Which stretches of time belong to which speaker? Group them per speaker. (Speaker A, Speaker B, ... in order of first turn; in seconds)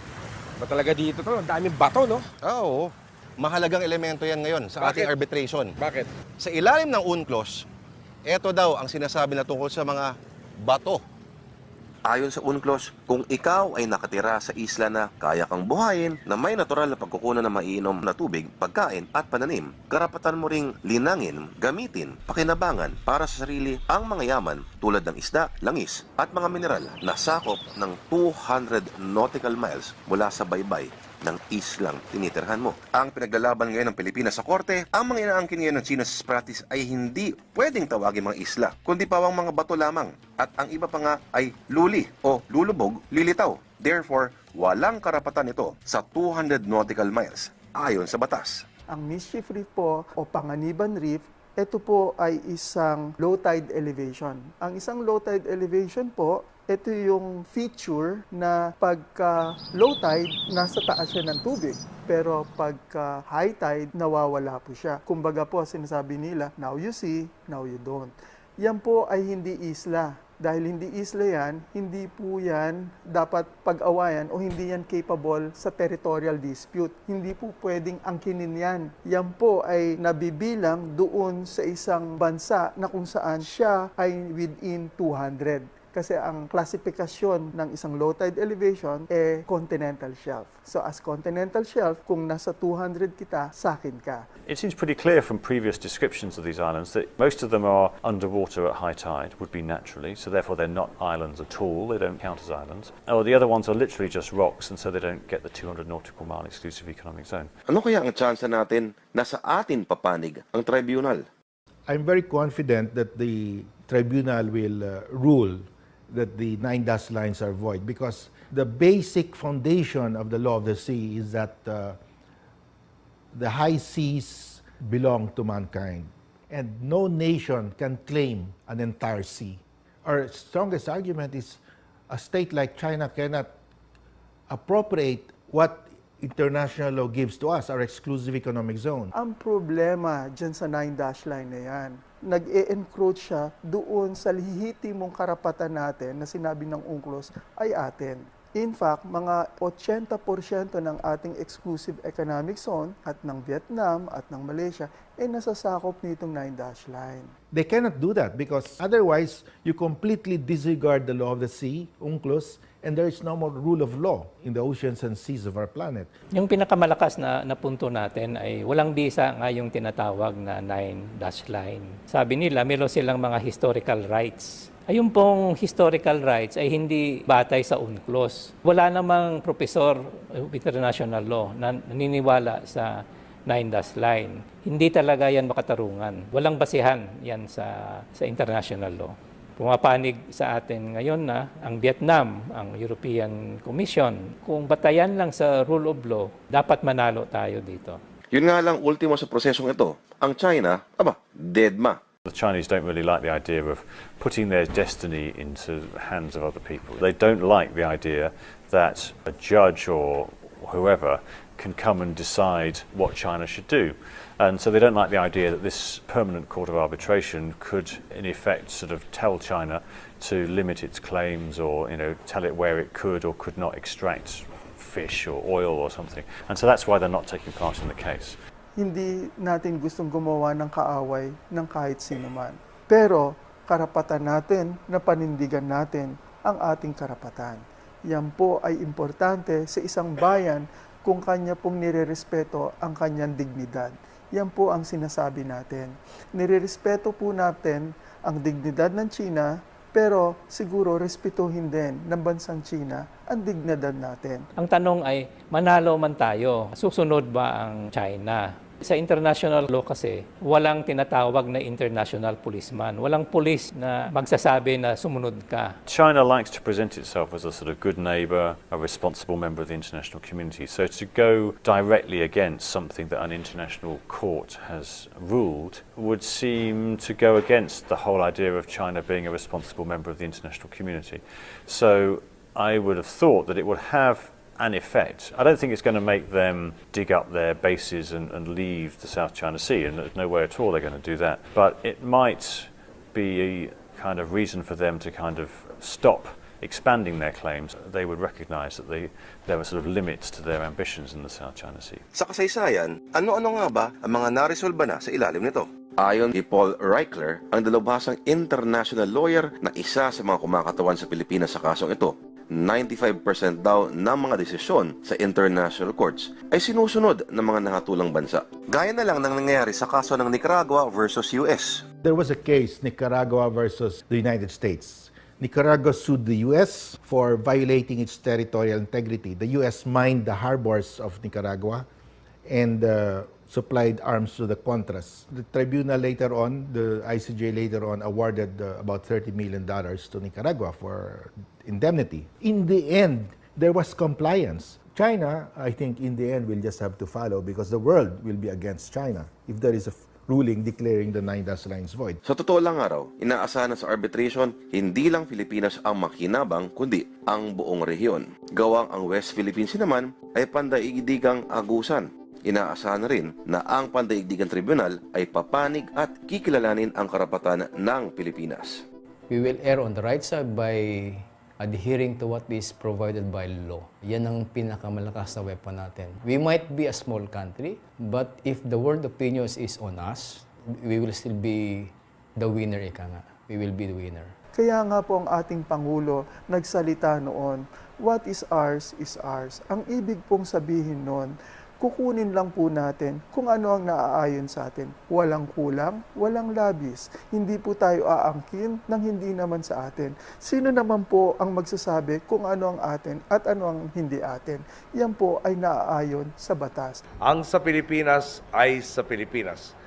Speaker A: 0.6-2.2, 4.8-5.1, 5.8-6.1
Speaker B: 2.4-5.7, 6.4-7.7, 8.3-10.1, 10.6-11.0
Speaker C: 12.1-48.6, 107.7-111.2, 198.3-202.0, 302.1-321.8, 352.2-368.8
Speaker D: 48.9-94.2, 139.1-157.3, 228.8-254.5, 384.6-407.0
Speaker E: 94.5-107.5, 202.3-228.4, 265.9-302.0
Speaker F: 111.9-122.0, 123.3-133.5, 134.5-139.1, 157.5-166.1, 322.0-331.9, 332.5-352.2
Speaker G: 166.3-198.0, 254.6-265.7
Speaker H: 369.3-384.3
Speaker I: 407.3-409.7